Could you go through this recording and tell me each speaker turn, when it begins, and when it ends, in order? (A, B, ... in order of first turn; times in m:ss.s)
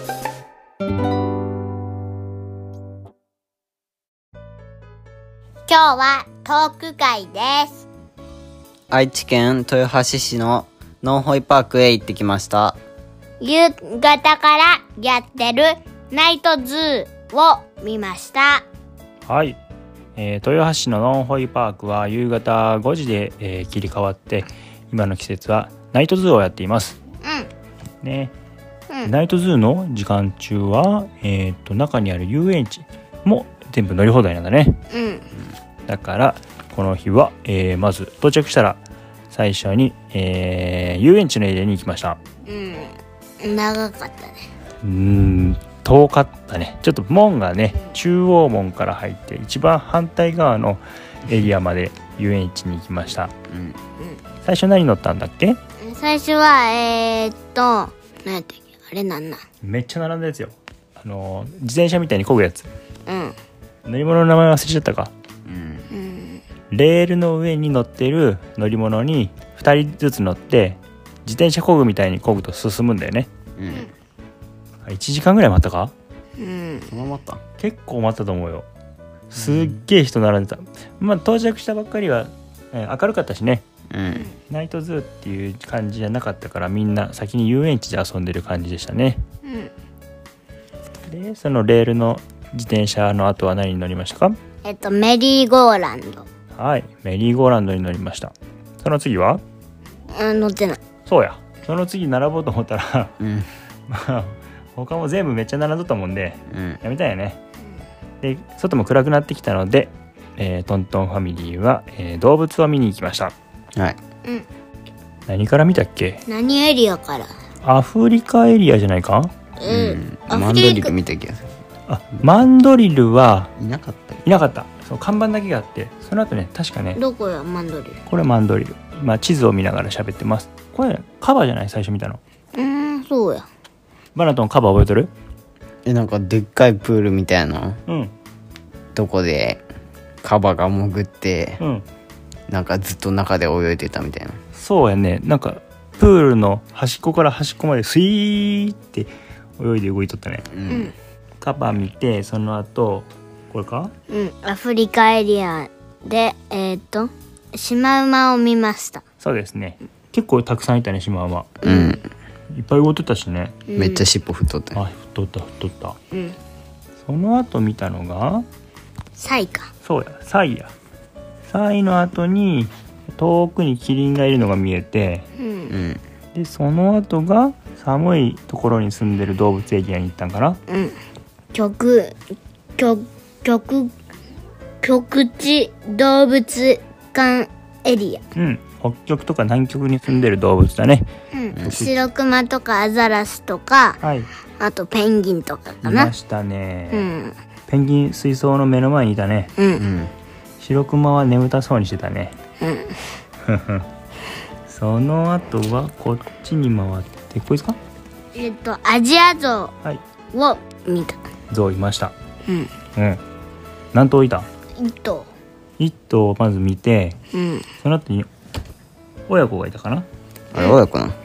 0:05.7-0:07.9 A
0:08.9-0:12.8 B
0:13.4-0:18.6 A
0:19.3-0:19.6 C
0:20.2-0:27.0 C
0:27.2-0:27.5 A
0:28.0-0:28.3 C
0:29.0-0:34.8 C
0:34.9-0:35.2 A
0:35.9-0:38.8 C
0:39.3-0:42.2 C
0:42.4-0:44.4 A
0:44.8-0:53.3 C
0:53.5-0:53.8 B
0:54.4-0:55.6 C
0:55.8-0:59.4 A
0:59.6-1:02.7 C
1:03.1-1:03.4 A
1:03.8-1:05.1 C
1:05.4-1:05.9 B
1:05.9-1:06.4 A
1:06.7-1:13.3 C
1:13.6-1:13.9 B
1:14.8-1:15.9 C
1:16.4-1:16.9 A
1:16.9-1:17.4 B
1:17.6-1:18.7 C
1:19.3-1:23.6 C
1:23.9-1:24.3 B
1:24.4-1:29.2 C
1:29.4-1:29.7 A
1:31.1-1:34.4 C
1:34.6-1:36.2 A
1:36.5-1:39.4 C
1:40.1-1:40.8 A
1:41.1-1:43.1 C
1:43.2-1:43.5 B
1:43.9-1:47.4 C
1:46.5-1:46.8 B
1:48.2-1:53.3 C
1:55.3-1:56.2 C
1:56.3-1:57.3 A
1:57.6-1:59.3 C
1:59.6-2:00.9 A
1:59.7-2:01.4 B
2:01.9-2:03.5 C
2:03.6-2:04.2 B
2:04.2-2:07.0 C
2:07.0-2:08.0 A
2:08.0-2:12.2 C
2:12.5-2:13.4 A
2:14.1-2:15.1 C
2:15.8-2:17.8 B
2:17.9-2:18.1 C
2:18.9-2:19.6 B
2:20.2-2:21.6 B
2:21.6-2:21.8 C
2:22.5-2:24.4 B
2:24.5-2:30.5 C
2:30.5-2:30.9 B
2:30.7-2:30.9 A
2:31.4-2:33.9 C
2:34.1-2:39.0 A
2:39.2-2:41.6 C
2:41.6-2:42.0 A
2:41.6-2:42.0 B
2:42.5-2:43.6 C
2:43.7-2:44.0 A
2:43.7-2:44.8 B
2:44.7-2:46.0 C
2:46.1-2:46.4 A
2:47.0-2:48.4 C
2:49.2-2:49.7 A
2:49.8-2:50.7 C
2:51.5-2:55.2 C
2:55.4-2:55.7 A
2:55.7-2:56.0 B
2:56.3-3:00.6 C
3:00.7-3:01.0 A
3:01.5-3:02.2 A
3:02.8-3:03.9 A
3:04.8-3:08.2 A
3:08.4-3:11.1 C
3:11.3-3:14.0 A
3:11.5-3:11.9 B
3:14.0-3:14.3 C
3:14.6-3:16.1 A
3:15.8-3:17.1 C
3:16.9-3:17.4 A
3:17.7-3:19.5 C
3:19.6-3:19.8 A
3:19.8-3:20.1 B
3:20.6-3:22.4 C
3:22.6-3:23.0 A
3:23.4-3:23.8 C
3:24.7-3:27.8 C
3:28.3-3:29.7 A
3:30.3-3:31.2 A
3:31.5-3:32.1 C
3:33.0-3:33.2 C
3:33.9-3:34.5 C
3:34.8-3:35.3 A
3:35.8-3:37.2 C
3:37.3-3:37.7 A
3:37.8-3:38.3 C
3:39.3-3:40.1 C
3:40.5-3:41.2 B